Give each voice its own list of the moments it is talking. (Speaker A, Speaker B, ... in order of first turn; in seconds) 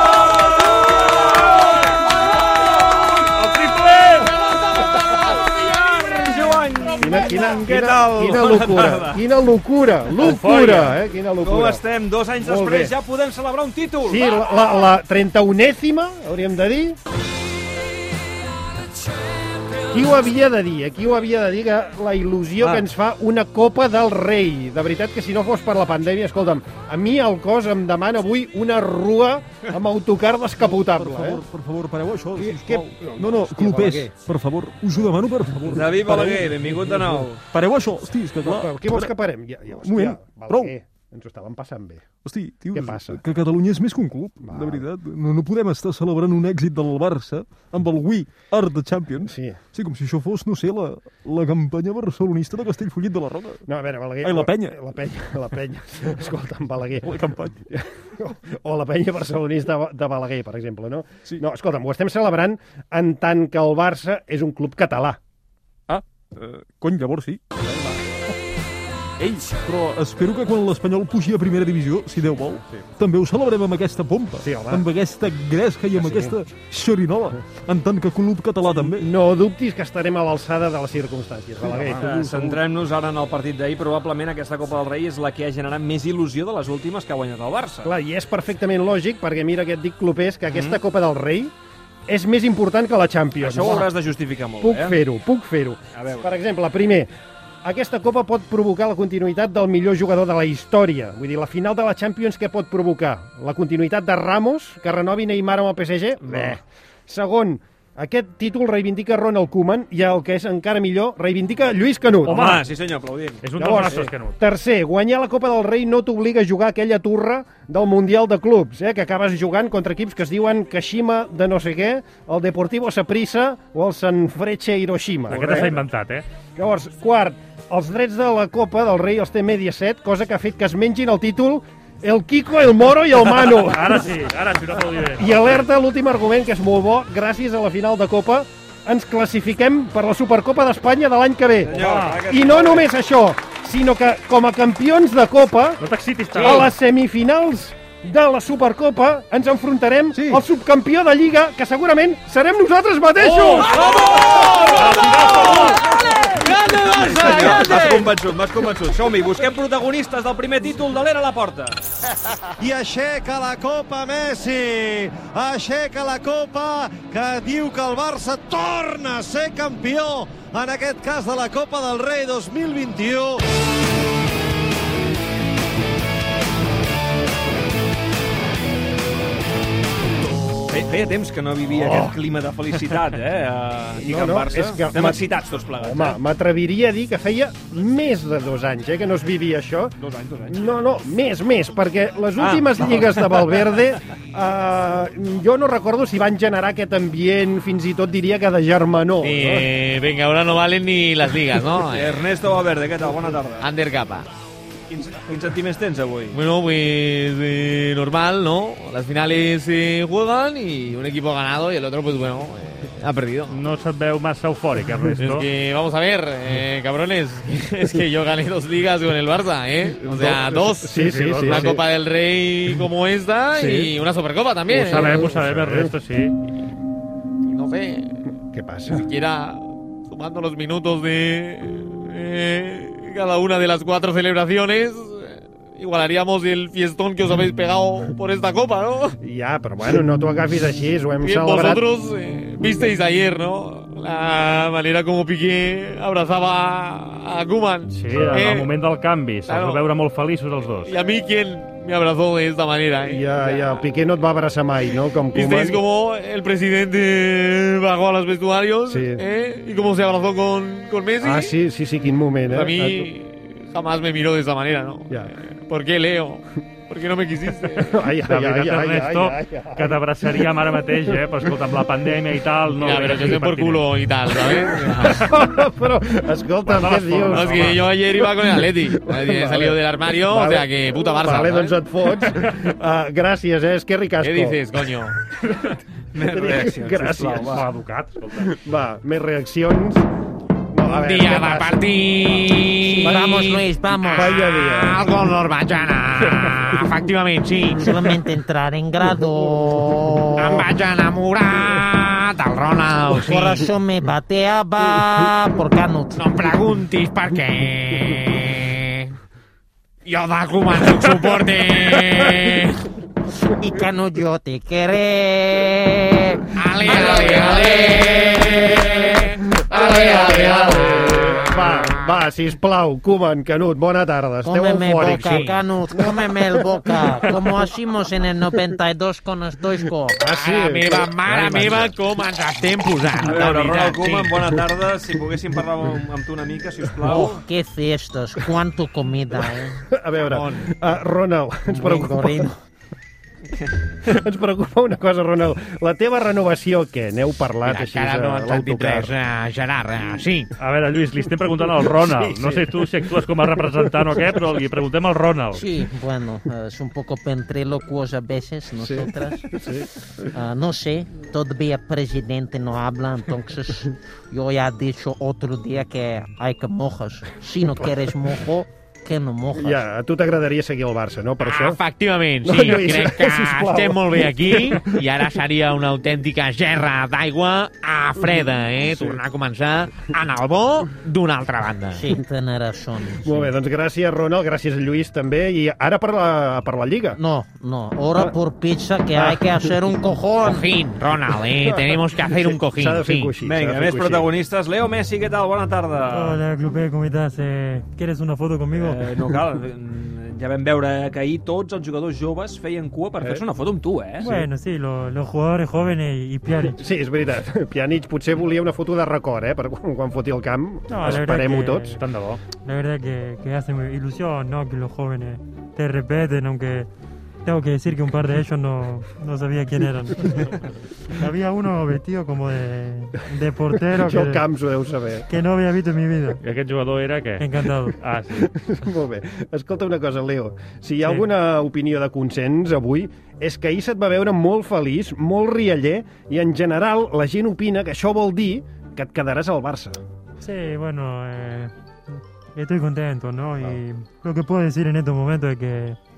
Speaker A: 3.6-9.2, 11.4-14.3, 35.7-37.4, 82.0-87.9, 90.5-90.8, 93.4-95.0, 95.9-96.3, 106.3-106.5, 112.3-113.4, 141.6-142.9, 153.3-155.7, 156.4-161.8, 180.7-186.2, 190.0-190.7, 192.4-193.5, 202.0-203.6, 204.9-206.4, 286.1-287.6, 333.3-337.4, 393.5-396.4, 398.7-404.3
Speaker B: 7.0-11.8, 12.4-12.9, 14.1-17.0, 19.9-31.4, 32.4-34.1, 38.4-42.0, 42.7-43.2, 44.4-44.9, 49.2-49.6, 53.7-57.1, 57.7-65.2, 74.4-74.9, 76.0-76.4, 78.7-82.1, 87.8-91.5, 92.1-93.9, 94.6-97.1, 97.6-112.5, 113.6-125.8, 126.6-134.0, 135.2-145.8, 146.4-153.9, 181.8-182.1, 184.0-185.3, 185.8-190.0, 190.5-199.6, 220.0-221.8, 223.6-223.9, 224.9-225.9, 228.5-229.1, 239.2-241.8, 248.1-248.4, 253.1-255.8, 258.9-259.2, 261.2-263.1, 267.9-270.5, 274.5-284.6, 286.2-287.6, 288.4-290.1, 290.7-291.9, 293.0-293.4, 294.1-295.1, 319.8-325.4, 325.9-326.7, 330.1-331.9, 339.9-342.5, 344.1-349.1, 352.3-352.6, 358.8-359.9, 369.5-371.8, 372.4-374.9, 378.9-379.2, 383.1-387.2, 389.1-389.6, 391.6-394.3, 404.2-404.5, 406.7-412.0, 423.7-425.3, 428.3-440.0
Speaker C: 10.2-10.9, 112.3-112.7, 113.4-114.4, 125.3-126.2, 133.2-135.7, 141.8-142.2, 145.8-146.7, 153.2-153.7, 154.8-155.8, 213.5-215.5, 221.0-221.6, 224.7-226.4, 247.9-250.9, 268.0-273.9, 276.7-277.8, 287.5-288.5, 350.6-355.6, 412.0-412.4, 426.4-427.5, 428.0-428.5
Speaker D: 30.6-39.1, 39.8-40.7, 42.2-53.6, 54.2-54.8, 57.0-57.6, 65.9-67.4, 69.2-79.1, 82.0-82.6, 150.2-150.4
Speaker E: 81.8-82.0, 396.1-399.4, 404.2-406.8, 410.9-412.0, 412.6-416.9, 417.5-420.6, 421.1-424.4, 425.3-426.4, 427.4-428.0, 440.4-441.7, 442.6-446.0
Speaker F: 157.4-158.0, 162.6-173.4
Speaker G: 199.2-202.3, 203.6-204.3, 206.3-213.7, 215.2-225.3, 227.5-228.2, 228.9-239.2, 241.2-248.7, 249.5-249.9, 250.8-253.9, 255.3-261.6, 262.5-267.8, 272.7-275.3, 277.2-281.8, 284.2-285.2, 290.9-297.9, 300.4-303.7, 304.9-305.3, 306.1-309.1, 310.1-312.8, 316.6-322.2, 325.2-325.6, 330.3-334.5, 340.2-340.7, 347.6-350.5, 371.4-382.0, 390.4-393.4
Speaker H: 293.0-294.3, 297.8-300.6, 303.3-306.2, 313.6-317.7, 324.4-330.2, 337.1-339.8, 341.7-342.5, 355.6-359.5, 360.3-369.8, 381.9-383.5, 387.2-390.6